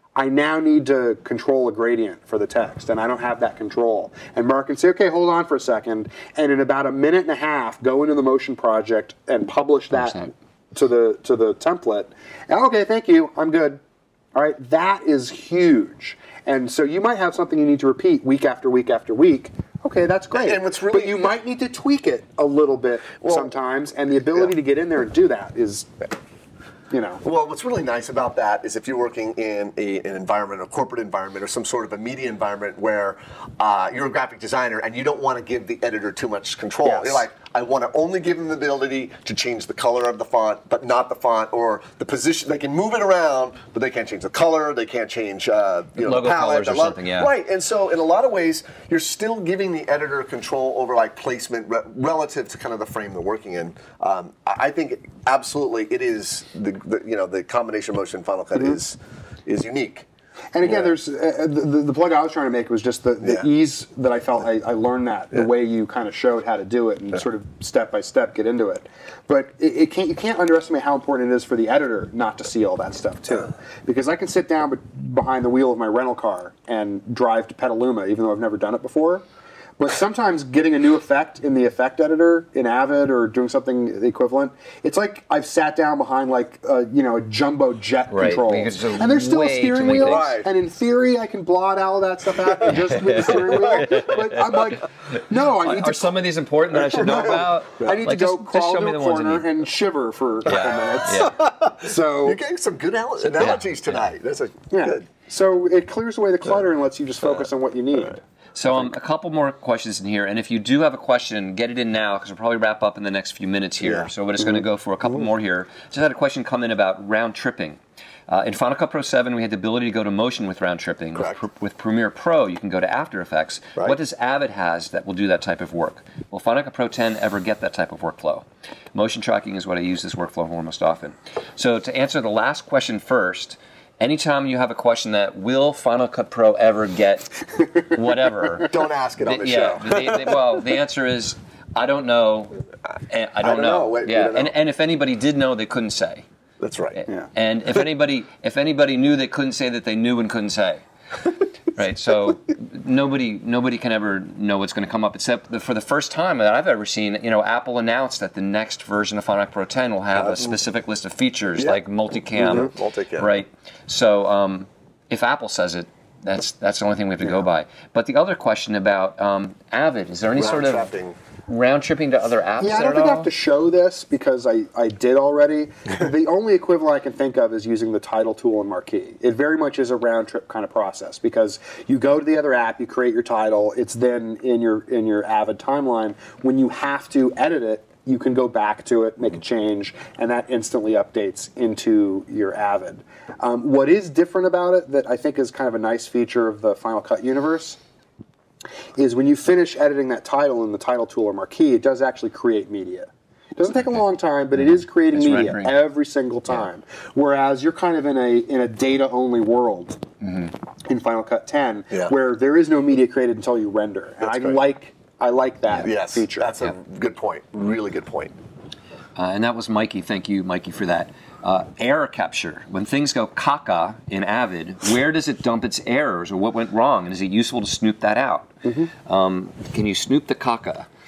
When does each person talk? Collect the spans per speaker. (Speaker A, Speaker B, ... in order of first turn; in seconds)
Speaker A: 0.2-13.8, 14.3-26.0, 26.9-27.2, 36.9-37.2, 60.5-79.2, 79.8-96.2, 96.7-102.4, 104.7-108.2, 172.6-197.8, 199.0-210.0, 210.8-216.5, 228.7-228.9
Speaker B: 9.9-10.3, 46.0-47.3, 88.1-90.4, 92.6-99.5, 100.5-101.4, 103.4-104.0, 108.5-146.3, 146.9-150.8, 151.7-170.9, 171.5-173.3, 204.6-205.8, 210.2-210.5, 219.2-230.9
Speaker C: 20.3-21.3, 27.2-60.1, 60.6-60.9, 90.0-90.5, 100.7-105.1, 113.8-114.1, 121.2-121.4, 138.7-140.4, 143.4-144.6, 146.6-147.0, 160.1-160.6, 162.4-163.3, 170.3-171.2, 214.2-214.6, 215.8-218.4